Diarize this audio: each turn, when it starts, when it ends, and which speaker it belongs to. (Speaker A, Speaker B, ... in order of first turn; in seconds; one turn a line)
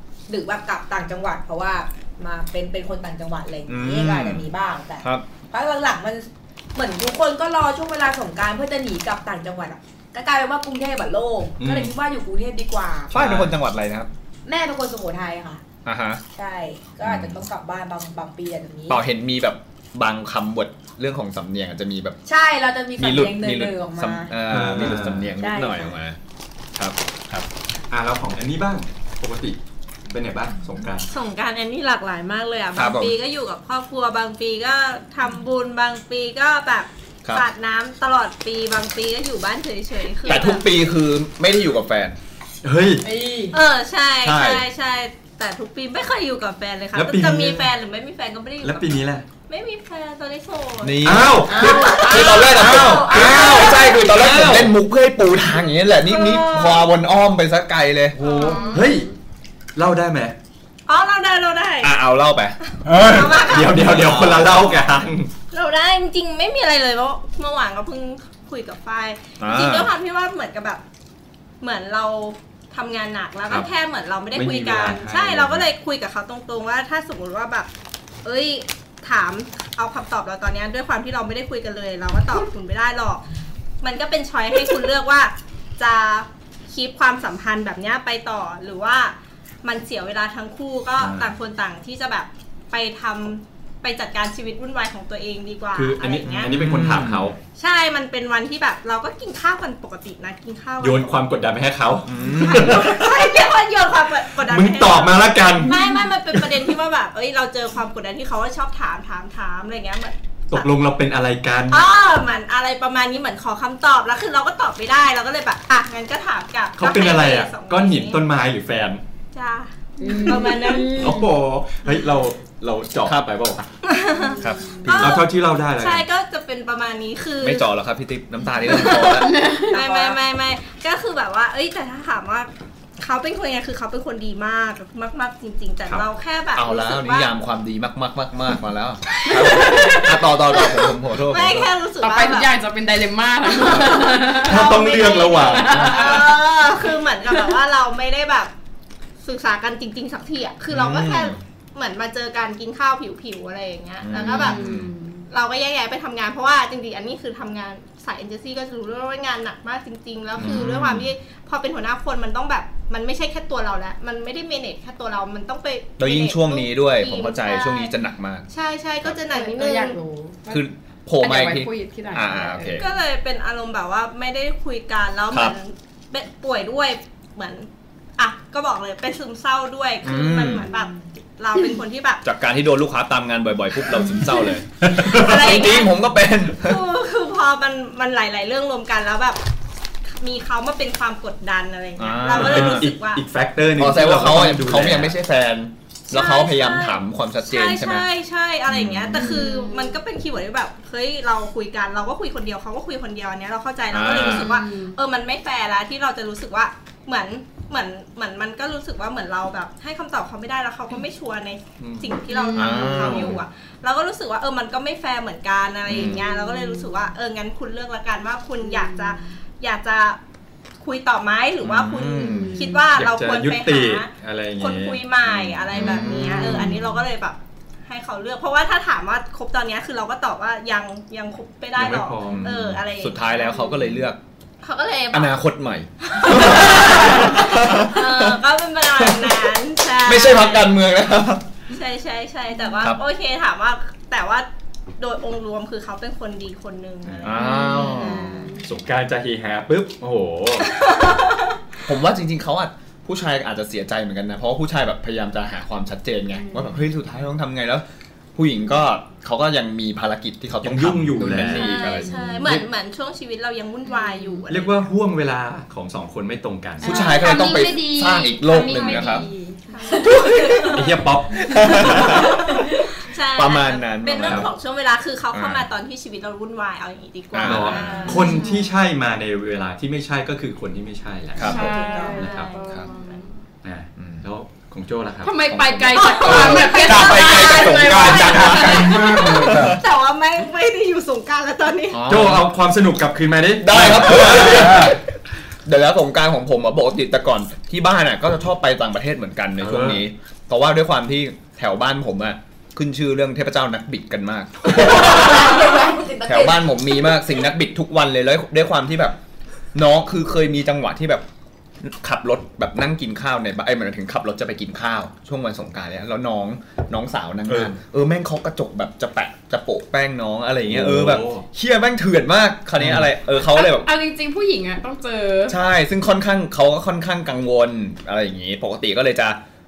Speaker A: 0.3-13.4
Speaker B: 3.7-4.5
Speaker B: 5.0-5.3
Speaker C: 11.6-11.9
Speaker B: 13.1-14.1
Speaker A: 14.5-15.6
Speaker B: 15.8-16.2
Speaker A: 16.4-19.0
Speaker B: 17.0-17.4
Speaker B: 18.9-22.2
Speaker A: 22.3-24.3
Speaker B: 23.0-26.2
Speaker C: 24.5-25.3
Speaker A: 25.4-25.9
Speaker B: 26.8-27.5
Speaker C: 27.9-29.6
Speaker C: 30.1-31.1
Speaker D: 31.1-40.7
Speaker B: 32.8-33.2
Speaker B: 40.2-42.2
Speaker C: 42.6-43.1
Speaker A: 43.0-43.6
Speaker D: 43.5-54.0
Speaker B: 44.2-44.7
Speaker C: 47.0-47.7
Speaker C: 48.6-49.3
Speaker B: 50.8-58.5
Speaker C: 51.0-54.8
Speaker A: 51.5-53.7
Speaker E: 52.0-52.5
Speaker D: 56.0-56.9
Speaker D: 58.2-58.7
Speaker C: 58.2-59.1
Speaker E: 58.2-59.1
Speaker C: 59.8-60.4
Speaker D: 60.9-62.0
Speaker B: 61.8-62.6
Speaker F: 62.9-63.6
Speaker D: 62.9-64.1
Speaker C: 63.4-65.3
Speaker B: 63.7-64.7
Speaker D: 65.5-70.8
Speaker B: 69.4-69.9
Speaker D: 71.6-77.7
Speaker C: 74.3-75.7
Speaker D: 78.2-83.2
Speaker D: 83.8-97.1
Speaker C: 91.0-91.3
Speaker C: 95.7-97.4
Speaker B: 96.2-97.3
Speaker D: 97.6-101.2
Speaker C: 100.8-103.3
Speaker B: 102.1-102.9
Speaker D: 102.4-110.7
Speaker C: 104.4-105.8
Speaker C: 106.3-106.7
Speaker C: 110.5-111.9
Speaker D: 111.7-118.2
Speaker C: 116.8-119.0
Speaker D: 119.3-121.1
Speaker A: 120.0-121.3
Speaker E: 120.0-120.6
Speaker C: 120.8-123.7
Speaker B: 123.0-123.4
Speaker D: 123.8-127.7
Speaker B: 124.4-125.3
Speaker C: 125.0-126.0
Speaker B: 127.4-129.3
Speaker D: 128.6-137.3
Speaker E: 128.7-129.8
Speaker A: 129.7-130.0
Speaker B: 136.6-141.7
Speaker E: 139.2-140.7
Speaker D: 141.2-142.5
Speaker E: 142.0-144.7
Speaker D: 143.5-148.5
Speaker C: 143.7-146.2
Speaker E: 145.3-146.3
Speaker B: 145.8-146.2
Speaker D: 149.2-154.6
Speaker B: 150.7-151.4
Speaker B: 154.0-154.9
Speaker E: 154.1-155.2
Speaker D: 155.3-167.9
Speaker B: 160.4-161.1
Speaker B: 166.0-168.5
Speaker D: 168.5-170.0
Speaker E: 169.3-170.6
Speaker B: 170.5-172.9
Speaker E: 171.2-172.8
Speaker D: 172.8-182.2
Speaker B: 175.3-175.6
Speaker B: 180.0-180.7
Speaker B: 182.2-186.8
Speaker D: 184.9-189.4
Speaker D: 190.2-193.2
Speaker B: 192.0-192.9
Speaker C: 192.4-195.2
Speaker B: 193.8-198.1
Speaker D: 196.1-220.2
Speaker B: 198.7-199.4
Speaker E: 199.2-200.0
Speaker B: 203.9-204.6
Speaker E: 204.2-205.0
Speaker C: 211.8-212.2
Speaker E: 212.3-213.1
Speaker B: 212.5-213.4
Speaker B: 215.9-216.2
Speaker A: 218.7-219.0
Speaker D: 220.8-224.1
Speaker B: 221.6-222.6
Speaker A: 222.2-222.6
Speaker E: 222.2-222.7
Speaker C: 222.9-225.0
Speaker D: 224.6-233.3
Speaker B: 225.3-227.0
Speaker A: 226.0-226.5
Speaker C: 231.8-232.6
Speaker B: 232.3-234.2
Speaker D: 234.6-235.3
Speaker B: 235.1-238.4
Speaker D: 236.1-240.8
Speaker B: 238.9-239.5
Speaker B: 240.0-241.4
Speaker D: 241.7-248.6
Speaker C: 247.0-247.3
Speaker B: 247.2-248.3
Speaker E: 247.4-248.6
Speaker C: 248.6-250.7
Speaker D: 250.6-251.6
Speaker B: 251.9-262.4
Speaker C: 260.6-261.9
Speaker D: 261.2-264.9
Speaker E: 264.0-264.4
Speaker C: 264.5-266.9
Speaker B: 266.8-269.2
Speaker E: 266.8-269.6
Speaker D: 268.6-269.2
Speaker D: 269.7-270.3
Speaker C: 270.0-272.4
Speaker A: 270.2-270.7
Speaker B: 271.5-272.4
Speaker D: 273.0-278.5
Speaker B: 273.3-274.5
Speaker C: 274.2-274.5
Speaker B: 275.3-275.7
Speaker B: 277.3-278.3
Speaker C: 277.4-282.5
Speaker E: 278.0-278.7
Speaker B: 281.4-281.8
Speaker E: 281.5-283.4
Speaker A: 281.5-282.3
Speaker D: 282.0-283.2
Speaker C: 283.6-285.3
Speaker B: 284.0-284.3
Speaker E: 285.2-288.9
Speaker B: 285.5-289.8
Speaker D: 286.2-286.5
Speaker F: 286.2-289.8
Speaker D: 288.0-292.0
Speaker B: 291.9-292.5
Speaker C: 292.1-294.9
Speaker B: 293.6-295.0
Speaker F: 293.7-295.0
Speaker B: 295.7-305.6
Speaker C: 299.6-300.0
Speaker A: 304.7-306.9
Speaker B: 306.2-309.2
Speaker B: 309.7-311.2
Speaker B: 311.8-323.9
Speaker C: 317.5-317.7
Speaker C: 320.7-321.4
Speaker C: 322.8-323.1
Speaker E: 323.4-325.6
Speaker B: 325.5-329.4